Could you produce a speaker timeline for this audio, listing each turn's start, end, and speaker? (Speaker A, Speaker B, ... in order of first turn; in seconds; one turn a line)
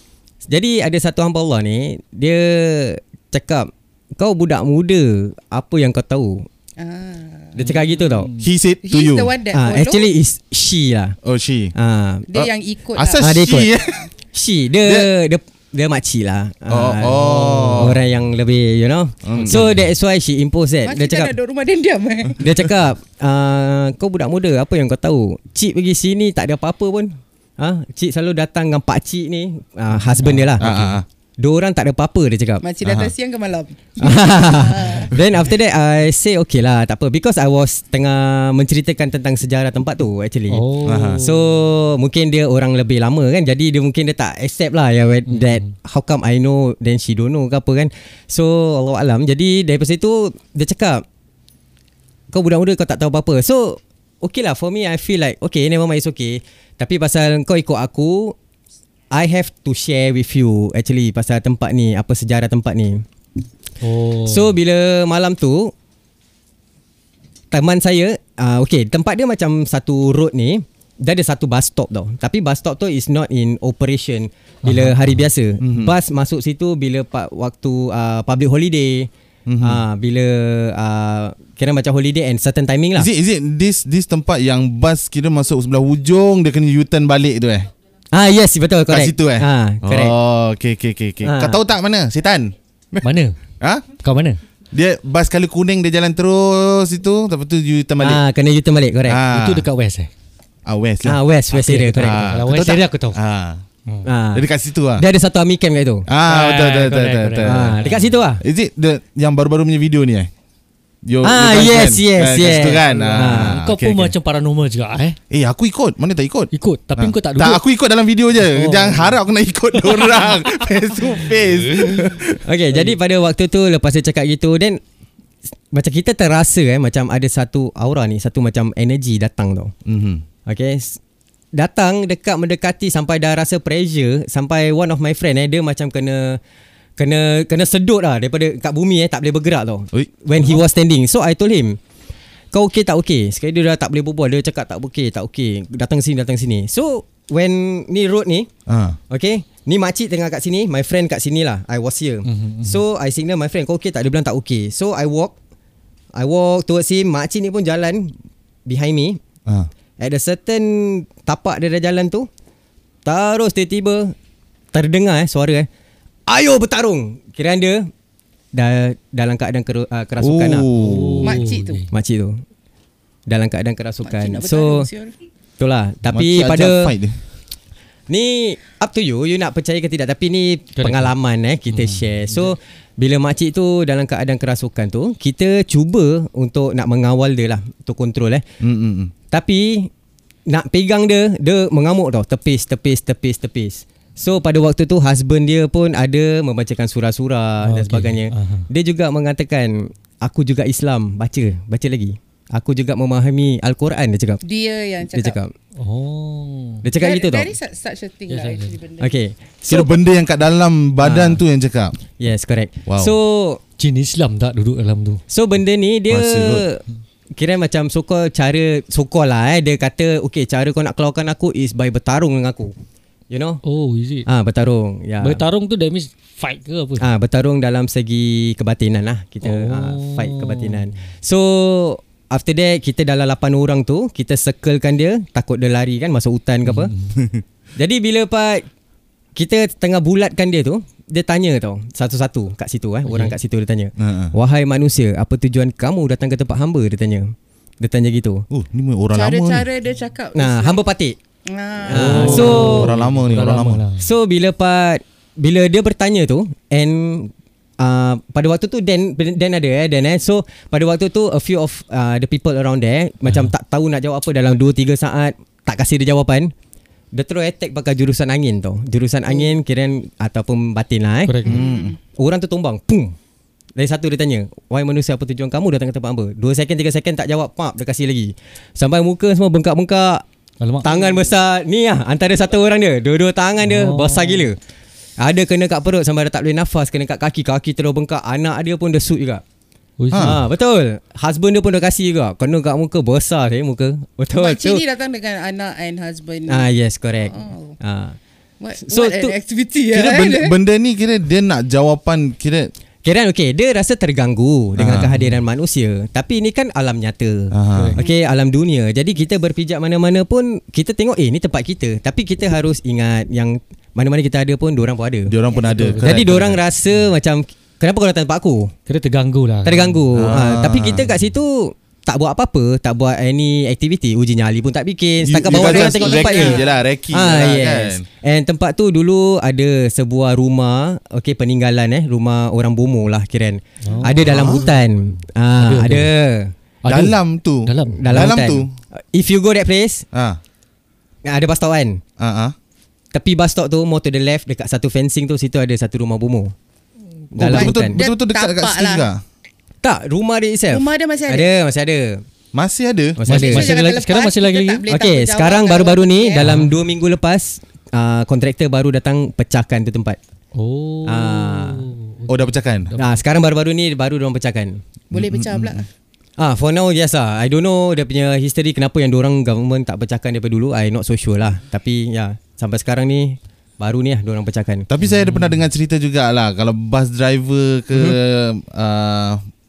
Speaker A: 0.5-6.5
Speaker B: 6.8-7.7
Speaker A: 7.5-8.3
Speaker C: 7.7-8.5
Speaker D: 8.4-9.3
Speaker B: 8.8-10.1
Speaker A: 9.5-11.2
Speaker D: 11.2-11.7
Speaker A: 11.8-12.3
Speaker B: 12.3-14.1
Speaker D: 12.3-14.1
Speaker A: 13.2-13.7
Speaker A: 14.3-21.3
Speaker D: 14.8-15.1
Speaker D: 16.7-18.0
Speaker C: 17.1-17.9
Speaker D: 19.2-19.8
Speaker C: 19.4-19.7
Speaker B: 20.8-22.4
Speaker A: 22.4-30.8
Speaker C: 30.2-30.9
Speaker D: 30.6-31.1
Speaker A: 31.4-32.6
Speaker B: 32.6-35.1
Speaker D: 32.8-33.1
Speaker A: 34.0-40.6
Speaker C: 40.5-41.5
Speaker D: 40.8-41.2
Speaker A: 41.2-51.0
Speaker C: 45.3-45.7
Speaker A: 52.3-58.4
Speaker A: 59.1-63.0
Speaker C: 63.8-64.6
Speaker A: 64.2-65.7
Speaker A: 67.5-79.1
Speaker C: 74.6-75.2
Speaker D: 75.6-76.0
Speaker D: 79.5-79.8
Speaker A: 79.6-83.1
Speaker D: 83.0-87.7
Speaker A: 88.1-90.2
Speaker D: 88.9-93.1
Speaker A: 91.2-91.6
Speaker C: 93.0-93.3
Speaker D: 93.6-93.9
Speaker C: 94.0-94.4
Speaker D: 94.7-98.2
Speaker A: 98.0-99.2
Speaker D: 99.1-99.7
Speaker C: 99.3-100.1
Speaker D: 100.7-101.2
Speaker A: 101.0-102.4
Speaker C: 101.5-103.2
Speaker D: 102.0-103.6
Speaker A: 104.0-106.1
Speaker D: 104.3-105.0
Speaker D: 106.1-110.3
Speaker C: 106.3-108.2
Speaker A: 107.4-108.4
Speaker D: 111.0-114.1
Speaker A: 111.2-113.6
Speaker C: 112.7-115.2
Speaker D: 115.3-122.4
Speaker C: 116.5-117.6
Speaker C: 118.4-119.2
Speaker C: 119.8-121.1
Speaker C: 121.7-122.1
Speaker A: 122.4-124.8
Speaker A: 125.7-129.7
Speaker D: 129.8-130.2
Speaker A: 130.5-131.0
Speaker A: 131.5-136.4
Speaker A: 137.0-141.8
Speaker A: 142.5-148.5
Speaker D: 148.7-149.0
Speaker A: 149.1-155.3
Speaker C: 152.3-152.8
Speaker A: 156.1-158.1
Speaker A: 158.7-159.2
Speaker A: 160.0-162.3
Speaker A: 163.1-164.2
Speaker A: 164.7-165.7
Speaker A: 166.3-167.9
Speaker A: 168.5-170.7
Speaker D: 170.2-171.4
Speaker C: 170.7-171.9
Speaker B: 171.2-171.8
Speaker A: 171.9-172.4
Speaker A: 173.3-174.9
Speaker B: 174.0-175.1
Speaker A: 175.6-176.9
Speaker D: 176.1-177.2
Speaker A: 178.1-188.4
Speaker C: 180.8-181.1
Speaker C: 181.7-182.5
Speaker D: 188.6-189.1
Speaker A: 189.3-189.9
Speaker A: 190.5-204.4
Speaker C: 197.6-198.7
Speaker B: 204.4-205.4
Speaker A: 205.1-205.5
Speaker C: 205.8-206.8
Speaker A: 206.8-207.5
Speaker B: 207.0-209.2
Speaker C: 208.3-208.8
Speaker A: 209.0-209.9
Speaker D: 209.7-212.0
Speaker A: 211.0-211.4
Speaker A: 212.2-213.6
Speaker D: 212.9-213.2
Speaker C: 213.8-215.2
Speaker A: 215.3-216.8
Speaker D: 216.1-216.7
Speaker A: 217.4-222.8
Speaker A: 223.3-223.6
Speaker C: 223.6-224.3
Speaker A: 224.3-225.4
Speaker C: 225.2-227.1
Speaker A: 227.0-236.9
Speaker C: 229.4-230.9
Speaker C: 236.7-237.1
Speaker D: 237.2-237.4
Speaker A: 237.8-238.7
Speaker A: 239.4-248.5
Speaker C: 243.1-243.3
Speaker D: 244.0-244.3
Speaker D: 248.5-249.7
Speaker B: 249.1-250.8
Speaker A: 250.3-251.2
Speaker B: 251.5-252.5
Speaker A: 251.8-252.9
Speaker C: 251.9-254.1
Speaker D: 252.1-253.8
Speaker A: 254.0-266.5
Speaker C: 263.2-263.5
Speaker A: 267.1-271.4
Speaker B: 269.3-269.5
Speaker C: 271.3-271.6
Speaker D: 271.4-272.0
Speaker B: 271.4-272.0
Speaker A: 272.1-273.1
Speaker A: 273.8-280.2
Speaker C: 280.6-281.3
Speaker A: 280.8-284.6
Speaker C: 283.6-284.5
Speaker A: 285.2-289.4
Speaker C: 290.0-290.4
Speaker D: 290.1-290.4
Speaker A: 290.2-294.8
Speaker B: 294.3-296.7
Speaker A: 296.5-298.2
Speaker B: 297.3-297.8
Speaker B: 298.6-300.6
Speaker A: 298.8-299.4
Speaker D: 299.9-302.7
Speaker A: 303.0-315.3
Speaker D: 304.8-305.1
Speaker D: 307.5-308.0
Speaker D: 315.3-316.6
Speaker C: 315.5-316.3
Speaker A: 316.0-318.7
Speaker C: 318.9-320.0
Speaker A: 319.6-336.5
Speaker D: 320.1-321.1
Speaker D: 325.2-328.1
Speaker B: 325.5-326.7
Speaker C: 333.8-334.3
Speaker D: 334.1-334.7
Speaker C: 335.6-336.1
Speaker C: 336.8-338.4
Speaker D: 336.9-338.7
Speaker A: 338.0-340.1
Speaker D: 340.1-340.4
Speaker A: 341.3-342.0
Speaker D: 342.2-342.6
Speaker A: 343.1-346.5
Speaker A: 347.3-348.0
Speaker D: 347.4-349.2
Speaker B: 347.4-349.1
Speaker A: 349.8-352.2
Speaker B: 350.7-351.5
Speaker D: 352.5-353.2
Speaker A: 353.2-353.7
Speaker C: 353.3-354.8
Speaker B: 353.3-356.5
Speaker A: 354.9-360.2
Speaker C: 356.4-356.7
Speaker C: 360.6-363.2
Speaker A: 361.1-361.9
Speaker D: 362.3-362.9
Speaker A: 363.0-364.8
Speaker B: 365.1-365.9
Speaker D: 365.1-365.9
Speaker A: 366.4-374.9
Speaker D: 374.9-379.4
Speaker C: 375.0-375.6